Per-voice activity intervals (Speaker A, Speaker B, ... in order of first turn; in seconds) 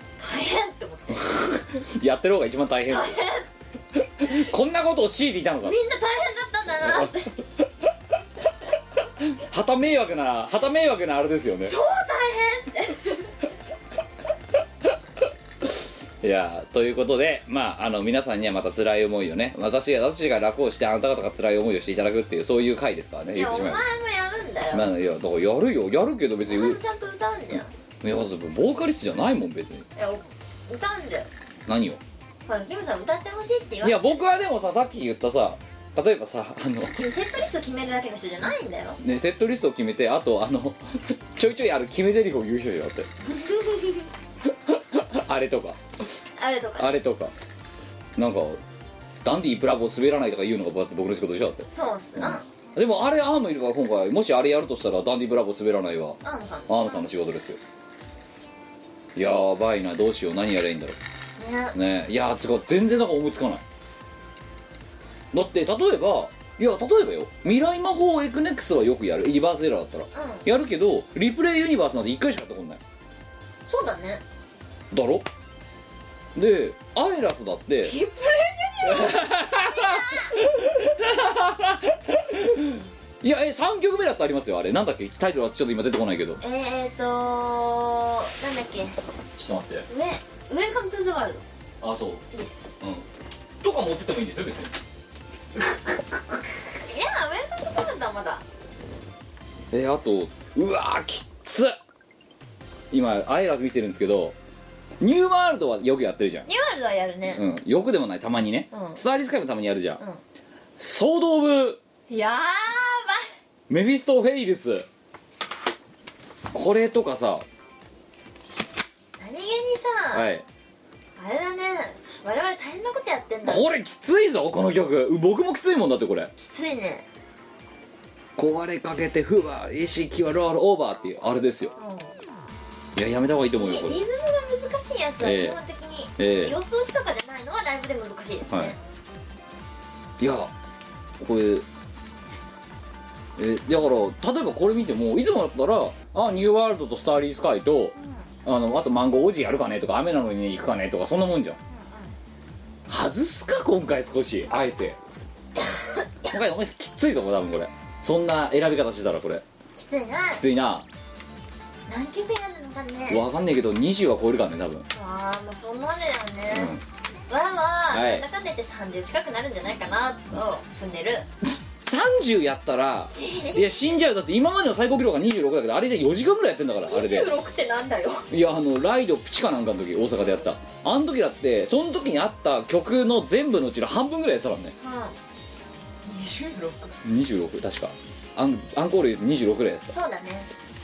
Speaker A: 0.2-1.5, 2.9-3.5, 5.6-7.3, 11.6-13.2, 23.3-24.9, 26.5-27.7, 29.9-31.3, 32.5-34.3, 36.9-39.0, 43.3-44.0, 46.4-47.0, 51.7-52.5, 56.2-57.0, 61.4-61.8, 70.1-70.5, 73.7-74.2, 77.8-80.4, 86.4-89.0, 89.9-91.4, 92.3-92.7, 96.8-98.4, 106.5-107.4, 108.7-109.0, 112.1-113.2, 119.2-120.3, 121.2-123.6, 126.4-127.1, 131.8-132.1, 133.6-138.8, 148.0-148.3, 151.7-152.2, 155.6-156.3, 159.8-160.4, 161.9-163.2, 164.9-166.7, 167.3-171.2, 173.1-173.9, 176.9-178.3, 184.8-185.2, 186.1-186.9, 189.9-190.5
Speaker B: 1.4-3.2, 4.2-5.8, 6.8-7.7, 9.2-11.8, 15.6-23.8, 24.7-26.8, 28.0-29.9, 31.6-32.0, 33.8-36.9, 39.0-43.1, 44.5-45.8, 46.8-47.3, 48.1-48.6, 49.2-57.6, 59.1-61.0, 61.7-63.6, 65.3-72.8, 74.9-75.2, 76.3-77.9, 78.8-86.4, 89.3-89.9, 91.8-92.2, 92.8-93.0, 93.6-94.8, 99.7-101.8, 102.9-104.4, 105.0-106.5, 107.3-110.0, 110.8-111.8, 113.7-114.8, 116.5-117.5, 120.1-120.5, 123.4-126.3, 128.3-131.7, 132.9-134.0, 135.2-135.6, 136.2-136.6, 138.4-138.7, 140.2-140.5, 141.2-141.7, 143.4-151.6, 152.9-155.0, 156.3-159.4, 160.3-160.9, 163.1-164.9, 166.5-166.8, 167.9-168.2, 171.4-177.3, 178.3-184.7, 187.0-189.9